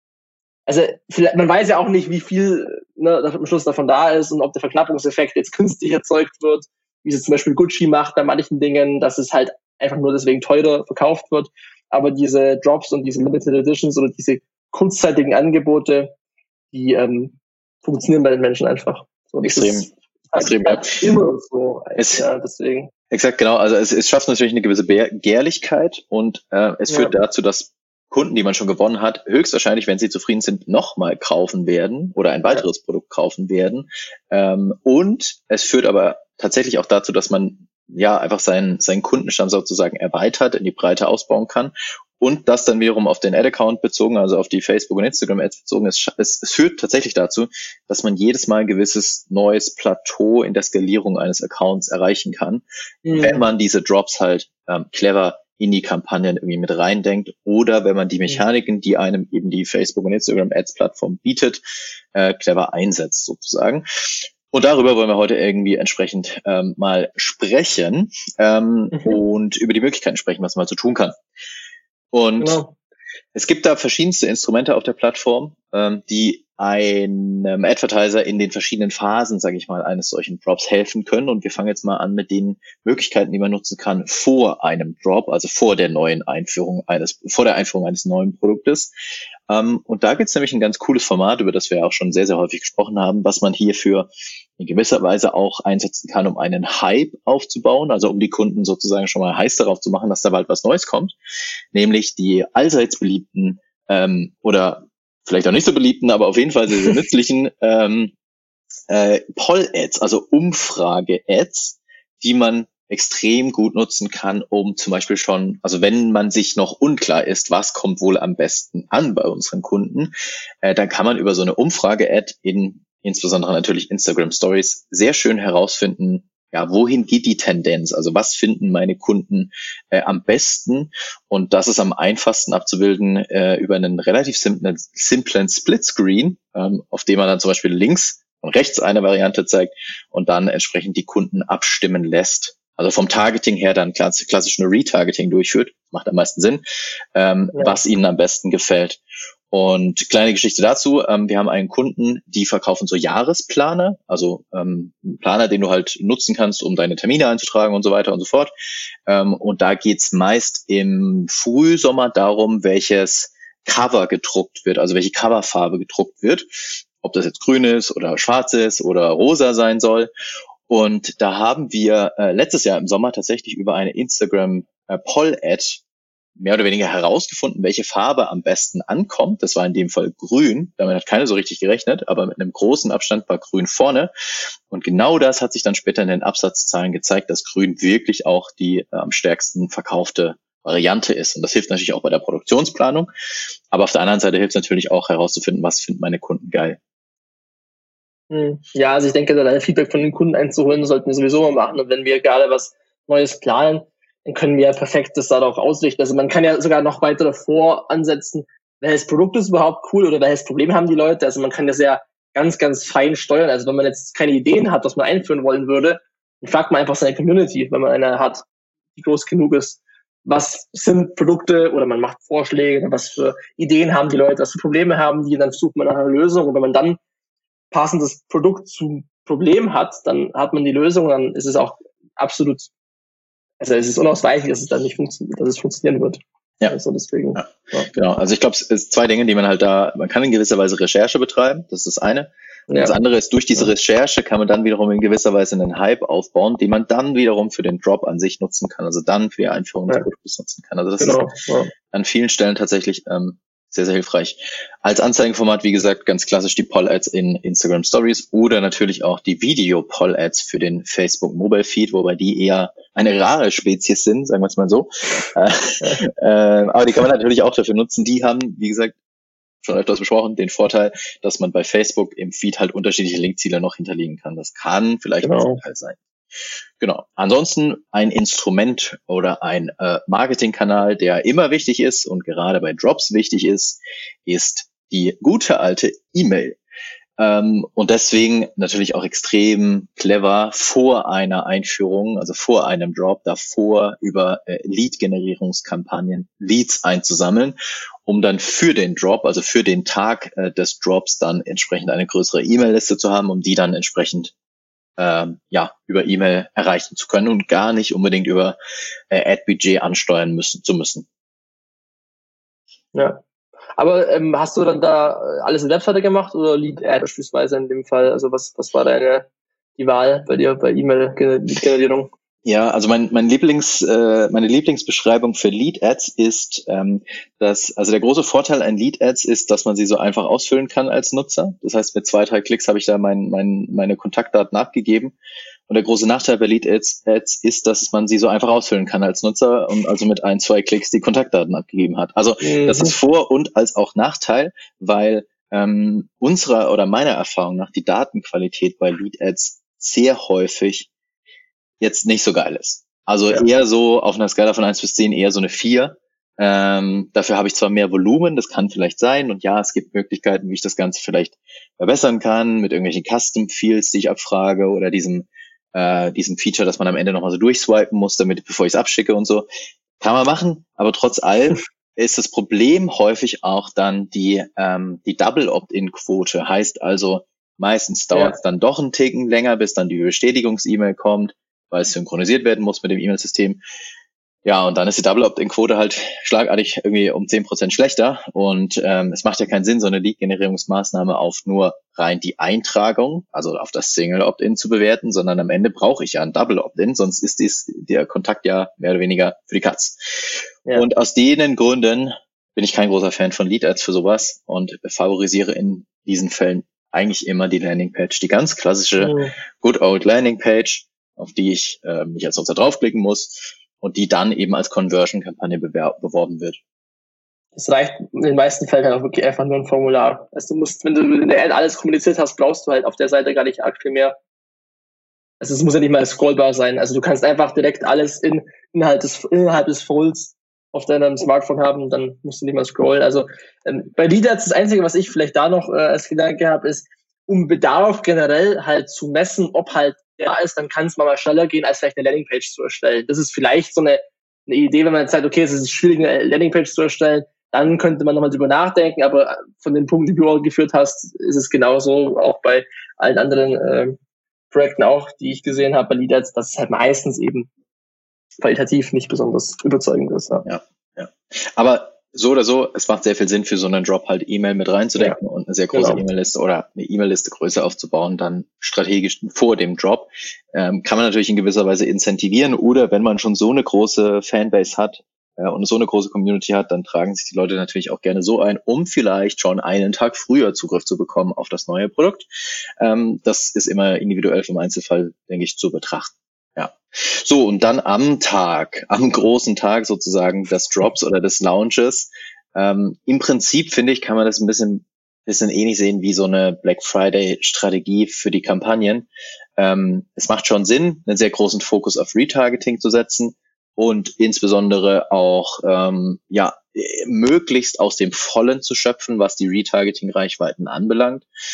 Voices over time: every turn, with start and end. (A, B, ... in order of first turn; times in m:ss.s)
0:00.7-0:16.1 A
0:16.7-0:22.9 A
0:19.4-0:21.1 B
0:22.0-0:22.3 B
0:23.1-0:52.6 B
0:26.9-0:27.2 A
0:53.0-0:53.5 A
0:53.2-1:01.6 B
1:02.1-1:11.2 B
1:08.9-1:09.2 A
1:12.1-1:12.6 B
1:12.4-1:12.7 A
1:13.4-1:28.9 B
1:29.5-1:41.2 B
1:41.7-1:48.1 B
1:48.9-2:00.1 B
2:00.6-2:26.6 B
2:27.2-2:29.0 B
2:27.5-2:27.8 A
2:29.5-2:38.5 B
2:39.1-2:50.1 B
2:50.7-2:55.8 B
2:56.4-3:04.1 B
3:04.7-3:13.1 B
3:13.7-3:16.8 B
3:18.3-3:38.4 A
3:39.0-3:47.0 A
3:47.7-3:52.7 A
3:53.6-3:57.9 A
3:57.4-4:11.2 B
4:02.7-4:03.0 A
4:11.0-4:11.7 A
4:11.9-4:29.0 B
4:29.6-4:36.0 B
4:35.2-4:35.6 A
4:36.8-4:46.6 B
4:47.2-4:57.6 B
4:58.1-5:04.3 B
5:05.0-5:08.6 B
5:09.1-5:11.1 B
5:12.9-5:13.2 A
5:13.8-5:22.1 A
5:22.4-5:35.2 B
5:35.7-5:50.9 B
5:42.4-5:43.0 A
5:51.8-6:09.5 B
6:10.0-6:23.6 B
6:18.1-6:18.4 A
6:24.4-6:40.0 B
6:40.7-6:56.6 B
6:49.0-6:49.3 A
6:57.6-7:04.2 A
7:05.4-7:34.0 A
7:34.5-7:37.5 A
7:38.4-7:40.5 A
7:40.5-8:02.3 B
7:45.7-7:46.0 A
8:02.8-8:31.3 B